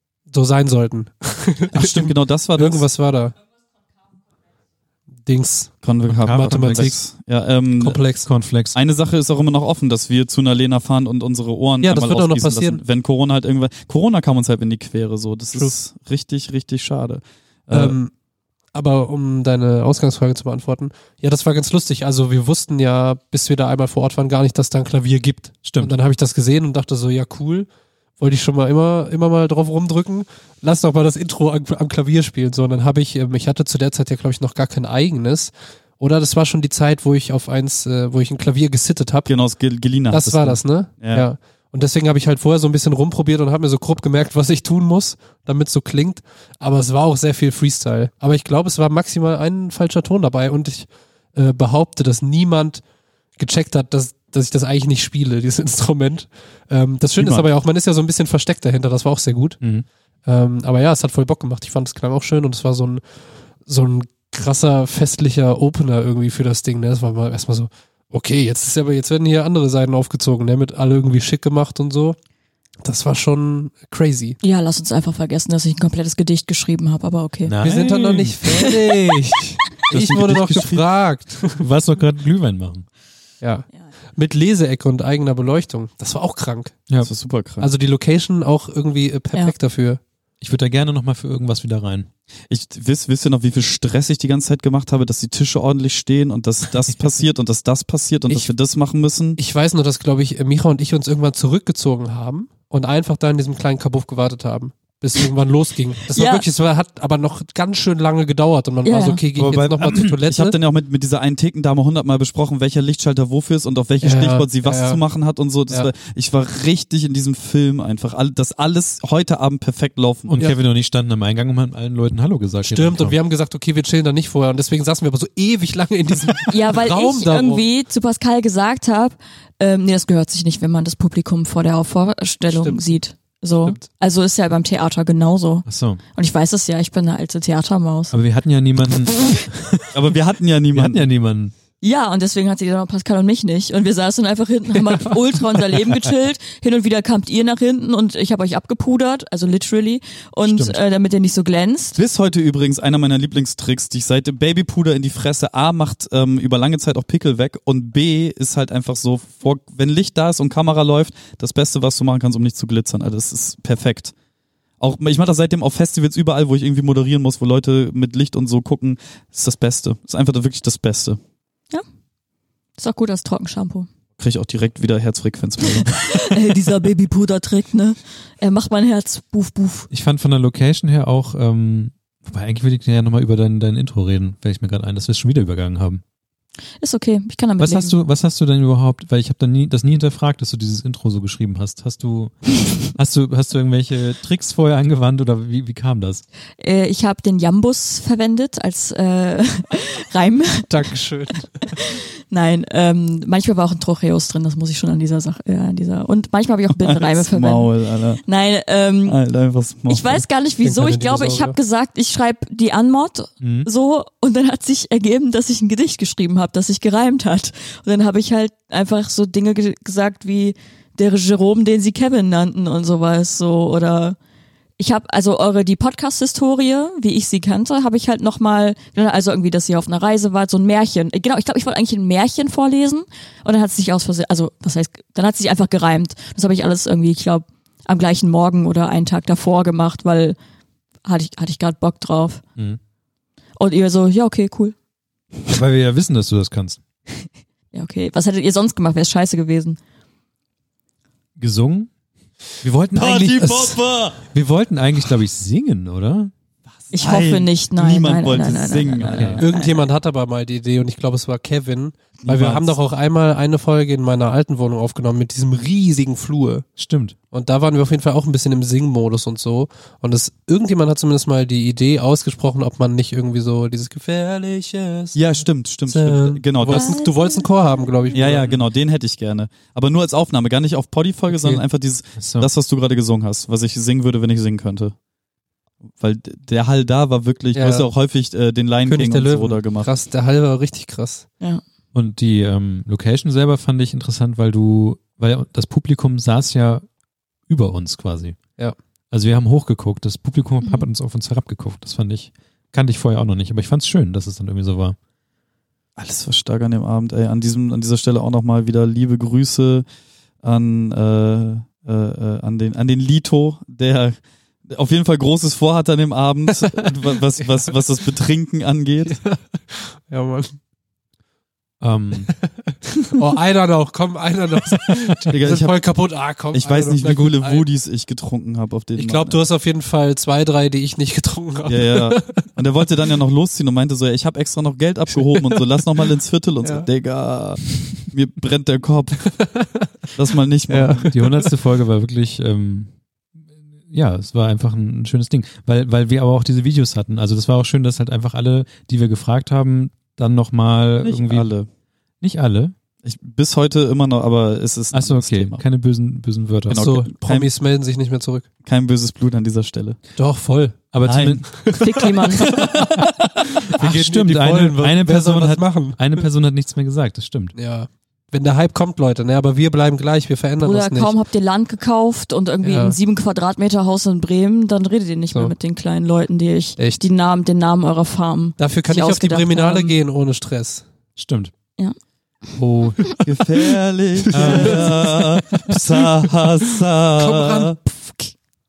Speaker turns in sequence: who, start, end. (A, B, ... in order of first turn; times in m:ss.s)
0:00.3-0:03.4 A
0:01.7-0:02.9 B
0:05.3-0:07.0 A
0:05.8-0:08.0 B
0:06.1-0:07.0 C
0:07.8-0:08.3 A
0:08.1-0:08.8 C
0:08.7-0:18.0 B
0:11.8-0:12.8 A
0:17.7-0:18.1 A
0:18.7-0:27.7 A
0:25.6-0:25.9 C
0:28.2-0:39.3 A
0:39.3-0:41.3 B
0:40.1-0:52.8 A
0:53.4-0:59.6 A
0:57.2-0:57.5 B
0:59.6-0:59.9 C
1:00.3-1:03.0 A
1:03.6-1:12.2 A
1:12.8-1:14.4 A
1:14.4-1:17.6 D
1:17.4-1:18.4 C
1:17.6-1:21.6 A
1:19.9-1:20.8 B
1:21.6-1:22.9 C
1:23.4-1:26.8 A
1:27.0-1:27.7 B
1:27.6-1:30.0 A
1:30.4-1:32.1 C
1:32.5-1:39.4 B
1:39.4-1:50.6 A
1:46.1-1:46.4 D
1:48.8-1:49.2 D
1:49.4-1:50.2 C
1:50.3-2:00.4 B
1:54.0-1:55.0 A
2:00.3-2:03.2 C
2:02.6-2:07.6 A
2:06.5-2:18.2 D
2:12.5-2:13.0 A
2:15.7-2:16.0 C
2:18.1-2:20.0 C
2:19.9-2:21.1 B
2:20.7-2:21.5 C
2:21.8-2:32.0 D
2:30.4-2:30.8 C
2:32.0-2:44.1 B
2:44.8-2:51.2 B
2:52.8-2:53.9 D
2:54.2-2:56.2 B
2:55.8-2:59.9 D
2:59.9-3:06.0 C
3:06.8-3:08.0 D
3:07.6-3:16.2 C
3:16.6-3:20.7 D
3:20.7-3:21.8 A
3:21.6-3:27.7 D
3:26.8-3:28.2 B
3:28.2-3:29.2 D
3:29.1-3:30.3 B
3:29.9-3:44.2 D
3:30.6-3:31.6 A
3:33.4-3:33.7 C
3:44.8-4:00.4 D
4:01.0-4:02.4 D
4:03.6-4:04.8 D
4:05.5-4:06.8 C
4:07.7-4:09.8 D
4:11.4-4:11.9 C
4:12.6-4:16.3 C
4:12.9-4:14.2 B
4:16.9-4:19.5 B
4:16.9-4:19.8 D
4:19.1-4:19.4 C
4:19.4-4:26.6 A
4:22.2-4:22.8 B
4:26.8-4:27.2 C
4:27.3-4:35.2 A
4:35.2-4:37.0 B
4:35.9-4:38.5 A
4:36.7-4:37.4 D
4:38.1-4:44.9 B
4:41.3-4:41.6 A
4:42.2-4:42.5 C
4:46.0-4:49.9 B
4:47.5-4:47.9 A
4:48.9-4:51.3 A
4:51.9-4:56.8 C
4:57.5-4:58.4 C
4:59.1-5:05.0 C
5:06.0-5:09.8 B
5:10.4-5:14.2 B
5:14.7-5:19.2 B
5:16.6-5:16.9 A
5:19.0-5:20.6 A
5:21.8-5:22.3 C
5:22.4-5:27.7 A
5:25.3-5:25.8 B
5:26.5-5:29.4 B
5:29.0-5:32.4 A
5:31.7-5:39.4 B
5:35.1-5:35.6 A
5:36.6-5:36.9 A
5:39.3-5:39.9 A
5:40.2-5:41.1 B
5:40.7-5:41.5 A
5:41.1-5:42.9 C
5:43.9-5:51.5 C
5:51.0-5:51.7 B
5:52.2-5:52.7 C
5:53.0-5:55.6 B
5:54.9-5:57.0 C
5:56.7-5:57.5 B
5:56.7-5:58.5 A
5:58.6-6:00.0 B
6:00.2-6:00.8 A
6:00.9-6:01.5 C
6:01.0-6:01.5 B
6:01.5-6:02.9 A
6:01.8-6:02.6 D
6:02.7-6:03.1 C
6:03.7-6:06.2 A
6:03.7-6:07.5 C
6:07.6-6:11.2 A
6:10.6-6:19.9 D
6:12.6-6:13.0 A
6:18.6-6:20.8 A
6:21.2-6:21.5 C
6:22.6-6:23.1 C
6:23.2-6:27.8 B
6:24.3-6:26.1 A
6:24.3-6:25.1 C
6:27.2-6:28.3 A